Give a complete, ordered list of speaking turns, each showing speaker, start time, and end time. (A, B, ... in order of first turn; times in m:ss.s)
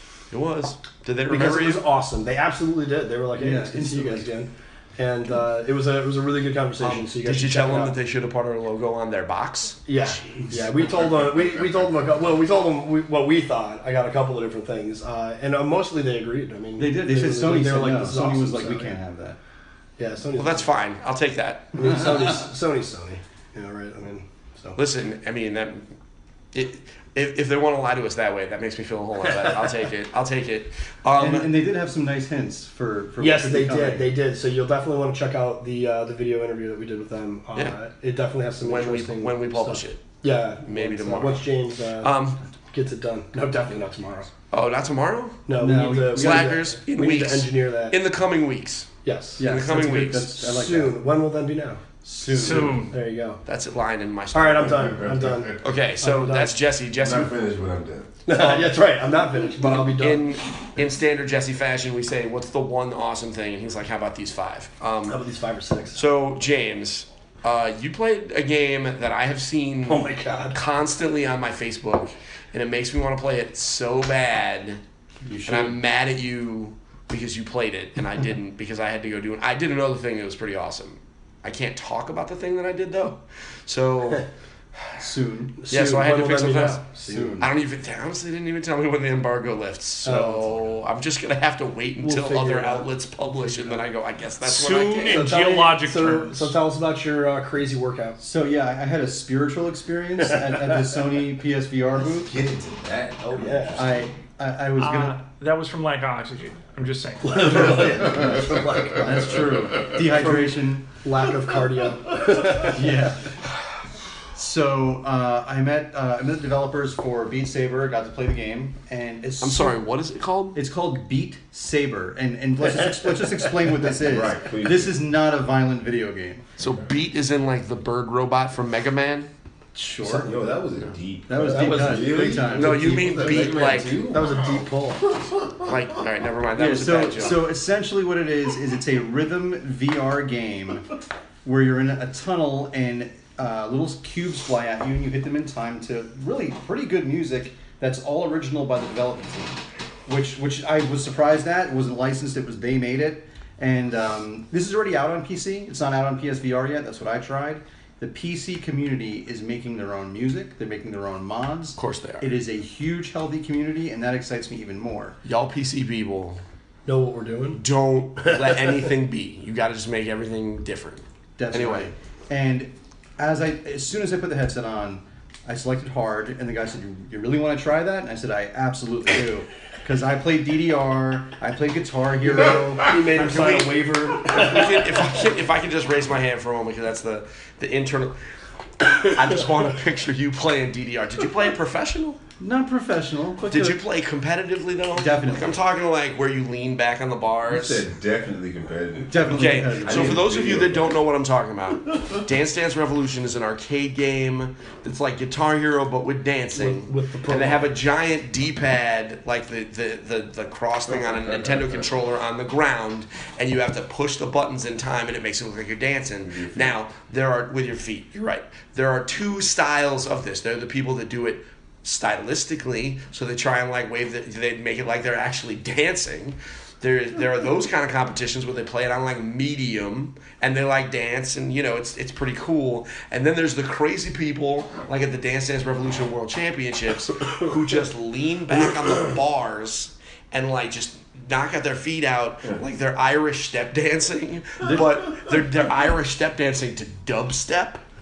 0:00.3-0:01.8 A
0:01.3-0:07.9 B
0:03.4-0:04.3 C
0:06.8-0:10.9 A
0:09.9-0:19.0 B
0:11.2-0:11.8 D
0:16.8-0:19.4 C
0:20.0-0:20.7 B
0:20.4-0:22.2 A
0:21.8-0:24.8 B
0:24.8-0:26.0 A
0:26.5-0:31.5 A
0:31.2-0:34.0 C
0:33.2-0:42.1 B
0:38.6-0:42.4 A
0:42.7-0:44.3 B
0:44.5-0:50.3 A
0:45.4-0:47.9 B
0:45.5-0:46.6 C
0:49.0-0:49.5 B
0:49.4-0:51.0 C
0:50.3-0:51.8 B
0:52.0-0:52.9 C
0:52.3-0:53.0 E
0:52.4-0:53.4 B
0:53.4-0:57.3 A
0:54.3-0:55.6 B
0:54.6-0:55.6 D
0:56.0-0:56.5 C
0:57.0-0:58.1 D
0:58.2-1:00.2 B
0:58.3-0:58.7 A
0:59.6-1:05.2 A
1:05.0-1:06.0 B
1:05.9-1:14.8 A
1:09.8-1:10.6 B
1:15.2-1:15.8 C
1:15.4-1:24.3 A
1:25.0-1:25.6 C
1:25.6-1:27.4 B
1:25.7-1:26.8 A
1:26.9-1:27.5 C
1:27.4-1:35.3 A
1:30.0-1:30.7 C
1:32.0-1:32.9 B
1:33.4-1:33.8 C
1:34.4-1:36.6 E
1:35.0-1:38.2 B
1:38.2-1:42.3 C
1:40.5-1:40.8 B
1:42.1-1:44.1 D
1:43.3-1:43.9 B
1:43.8-1:45.2 C
1:44.8-1:48.0 E
1:47.2-1:53.0 B
1:47.5-1:50.9 C
1:49.4-1:49.8 D
1:52.5-1:53.3 C
1:54.3-1:59.8 C
1:59.4-2:00.6 A
2:00.5-2:06.4 C
2:02.8-2:03.3 B
2:04.0-2:05.0 D
2:06.6-2:09.3 A
2:06.6-2:06.9 D
2:09.7-2:10.5 C
2:10.0-2:15.8 D
2:11.3-2:13.4 C
2:11.4-2:15.0 B
2:12.5-2:14.1 A
2:15.6-2:17.5 A
2:16.5-2:20.9 C
2:21.4-2:45.2 C
2:41.8-2:42.3 A
2:45.2-2:46.4 A
2:46.8-2:47.6 B
2:47.5-2:51.9 A
2:48.2-2:48.8 B
2:51.4-3:03.6 C
3:02.8-3:05.2 B
3:03.2-3:12.2 A
3:12.4-3:13.8 C
3:13.4-3:17.8 A
3:15.0-3:15.5 C
3:17.4-3:21.0 D
3:19.1-3:20.2 C
3:19.3-4:07.8 A
3:26.5-3:27.6 B
3:30.9-3:32.0 D
3:36.2-3:36.8 D